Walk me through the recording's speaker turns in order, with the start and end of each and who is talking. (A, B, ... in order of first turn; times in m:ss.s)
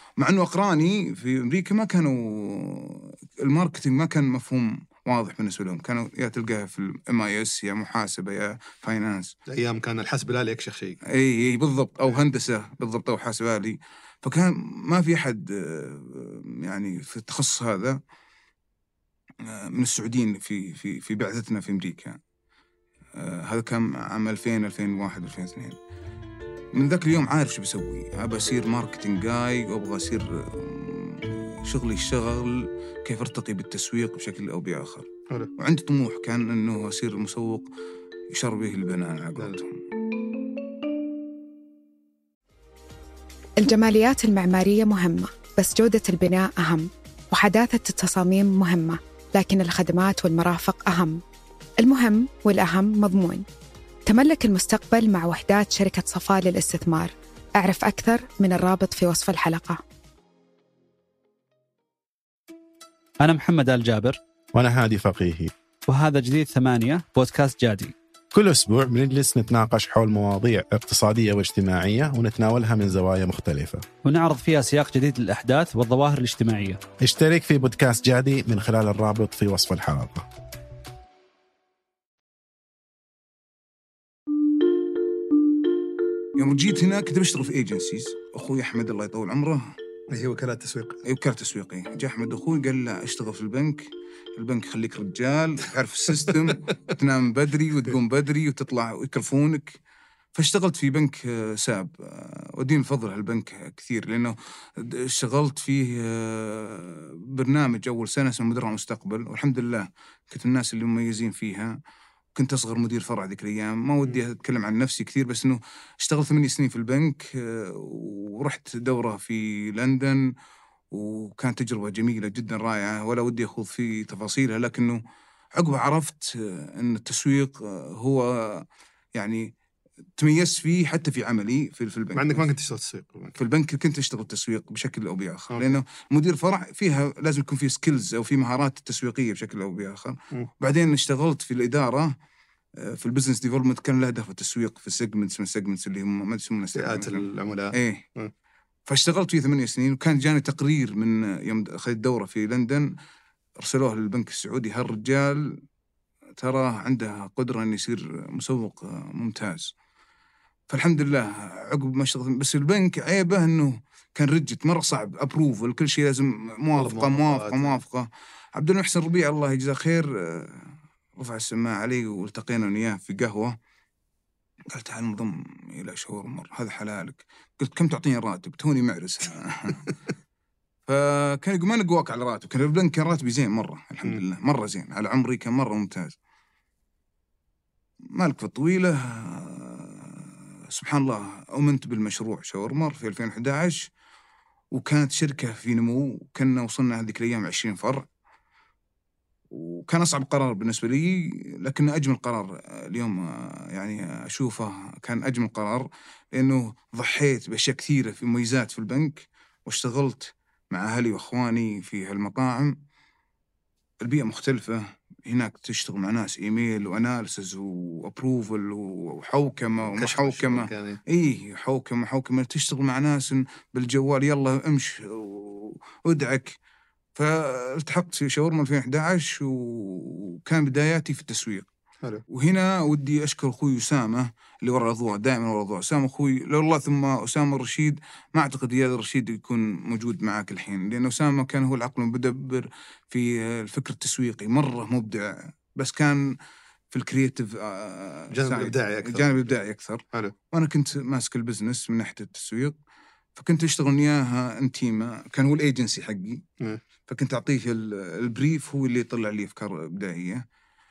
0:00.2-0:09.3 A
0:09.5-0:11.0 B
0:11.0-0:18.0 A
0:19.4-0:22.2 A
0:23.2-0:25.8 A
0:26.7-0:37.7 A
0:38.3-0:39.8 A
0:43.6-0:51.2 C
0:51.8-0:53.4 C
0:54.0-0:59.8 C
1:03.2-1:04.2 D
1:04.5-1:05.5 E
1:05.9-1:07.9 D
1:08.3-1:13.8 E
1:14.0-1:16.8 D
1:17.0-1:20.3 E
1:26.4-1:29.7 A
1:30.1-1:31.0 B
1:31.0-1:39.8 A
1:40.3-1:51.8 A
1:52.3-2:00.3 A
2:00.9-2:05.0 A
2:05.6-2:09.5 A
2:10.2-2:12.5 A
2:12.1-2:13.4 B
2:13.4-2:22.1 A
2:15.5-2:15.8 B
2:22.8-2:28.0 A
2:26.7-2:28.3 B
2:28.9-2:32.9 A
2:33.6-2:35.6 A
2:36.4-2:39.7 A
2:40.7-2:53.6 A
2:46.7-2:47.8 B
2:54.7-2:59.9 A
3:00.9-3:06.2 A
3:08.1-3:13.9 A
3:14.7-3:18.1 A
3:19.5-3:32.7 A
3:34.0-3:46.6 A
3:39.8-3:41.0 B
3:47.1-3:51.7 A
3:52.3-4:06.4 A
4:06.9-4:12.8 A
4:08.3-4:09.4 B
4:13.3-4:16.4 A
4:17.1-4:20.4 A